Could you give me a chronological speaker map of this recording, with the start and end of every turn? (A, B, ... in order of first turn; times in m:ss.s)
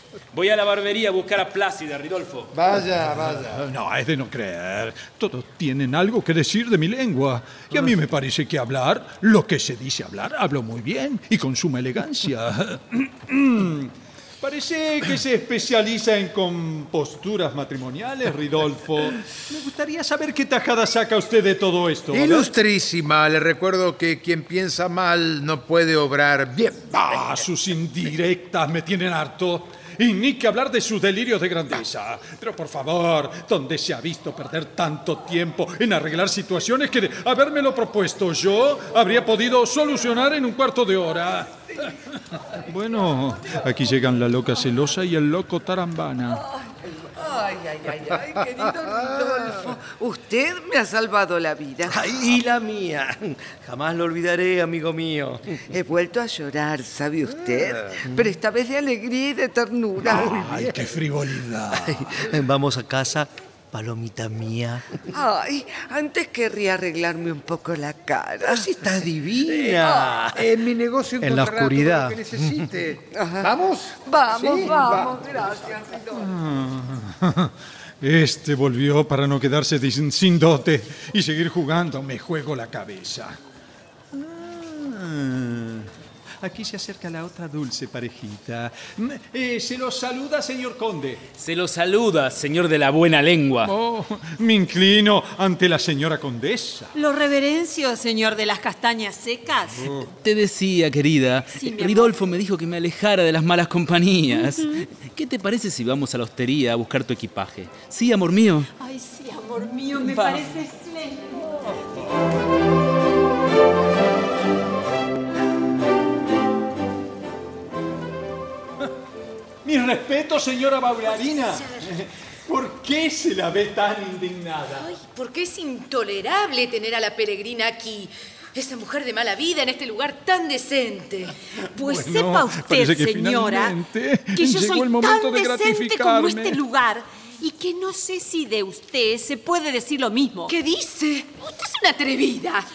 0:00.3-0:02.6 A
0:02.5-0:03.7 B
0:03.5-0:22.5 C
0:22.1-0:27.4 B
0:27.0-0:46.4 C
0:46.7-0:52.0 D
0:51.8-0:55.6 E
0:55.7-1:00.6 D
0:58.1-0:58.3 E
1:00.0-1:02.3 C
1:00.1-1:00.8 E
1:01.7-1:05.0 E
1:05.1-1:08.7 D
1:08.4-1:10.5 E
1:09.4-1:10.2 D
1:10.3-1:15.5 B
1:11.2-1:12.7 E
1:13.1-1:16.3 D
1:16.2-1:23.4 C
1:24.1-1:31.2 C
1:31.4-1:33.7 A
1:33.6-1:36.9 C
1:37.0-1:39.9 F
1:40.2-1:48.7 A
1:41.5-1:42.2 F
1:44.3-1:44.8 F
1:48.8-1:51.8 F
1:59.6-2:04.9 C
2:01.1-2:01.8 G
2:04.8-2:11.3 G
2:11.6-2:16.6 C
2:11.8-2:13.8 F
2:14.3-2:20.6 F
2:20.5-2:22.7 G